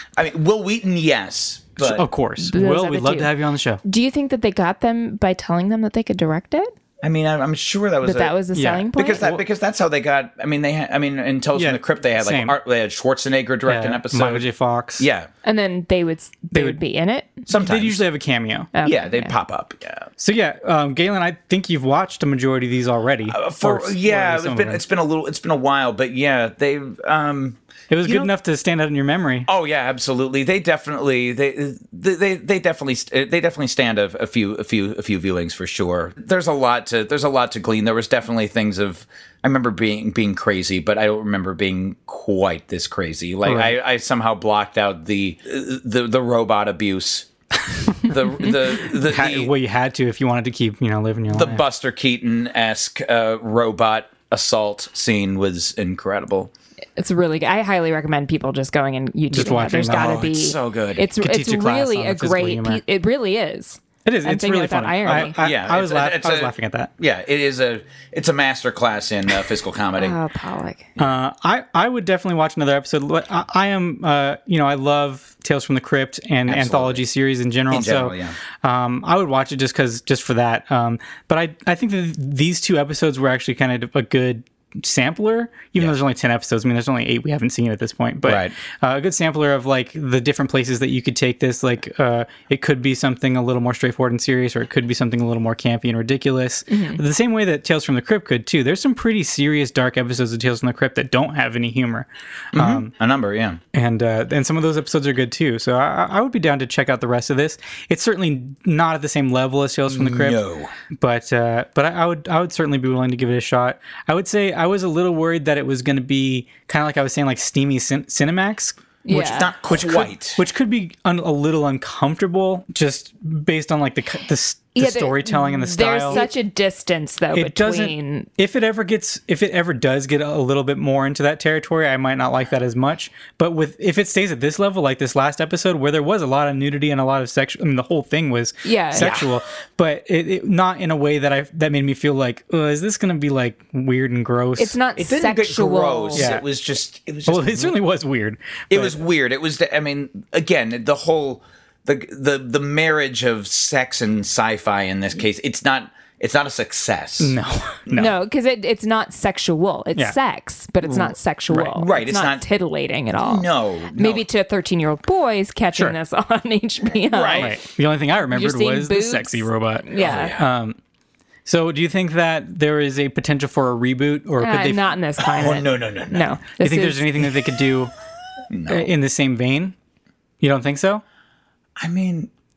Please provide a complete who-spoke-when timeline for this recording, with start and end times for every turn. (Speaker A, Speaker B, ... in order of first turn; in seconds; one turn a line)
Speaker A: 0.2-2.0
Speaker B: 1.8-3.8
Speaker C: 2.4-3.3
Speaker C: 3.8-6.7
Speaker A: 7.0-8.3
Speaker C: 8.0-9.3
Speaker B: 8.5-9.4
Speaker A: 8.9-14.5
Speaker B: 11.6-12.6
Speaker B: 13.7-15.1
Speaker A: 15.0-15.3
Speaker C: 15.4-17.5
Speaker B: 16.5-16.8
Speaker A: 17.5-18.0
Speaker B: 17.5-18.7
Speaker C: 18.8-19.3
Speaker A: 18.8-20.1
Speaker B: 20.2-24.8
Speaker A: 23.3-28.3
Speaker B: 27.9-29.5
Speaker A: 29.5-47.3
Speaker B: 43.5-43.8
Speaker A: 48.0-49.5
Speaker B: 48.5-51.6
Speaker A: 51.3-56.5
Speaker C: 57.0-65.3
Speaker B: 59.3-60.2
Speaker A: 59.9-61.1
Speaker B: 61.2-62.8
Speaker B: 64.0-66.9
Speaker A: 65.1-70.2
Speaker C: 70.0-70.9
Speaker B: 71.0-102.9
Speaker A: 76.5-77.0
Speaker A: 77.7-78.4
Speaker A: 88.2-88.5
Speaker C: 96.7-97.0
Speaker A: 102.5-103.6
Speaker B: 103.7-110.4
Speaker A: 109.9-110.7
Speaker B: 111.0-126.2
Speaker C: 119.0-119.5
Speaker A: 119.1-120.4
Speaker C: 124.8-128.3
Speaker B: 127.3-144.8
Speaker C: 138.7-139.2
Speaker A: 139.0-139.3
Speaker C: 144.6-146.3
Speaker A: 145.0-147.8
Speaker B: 146.2-146.4
Speaker B: 147.3-149.0
Speaker A: 148.7-157.3
Speaker B: 157.2-158.1
Speaker A: 157.9-158.1
Speaker C: 157.9-167.6
Speaker B: 160.9-161.7
Speaker A: 161.5-162.4
Speaker A: 163.2-164.2
Speaker A: 167.1-167.5
Speaker B: 167.3-170.8
Speaker C: 168.3-170.3
Speaker A: 170.0-170.5
Speaker B: 171.4-174.8
Speaker C: 174.4-177.2
Speaker A: 175.2-176.4
Speaker B: 176.6-177.9
Speaker A: 178.5-178.9
Speaker B: 178.7-179.8
Speaker B: 180.4-181.0
Speaker A: 181.8-182.3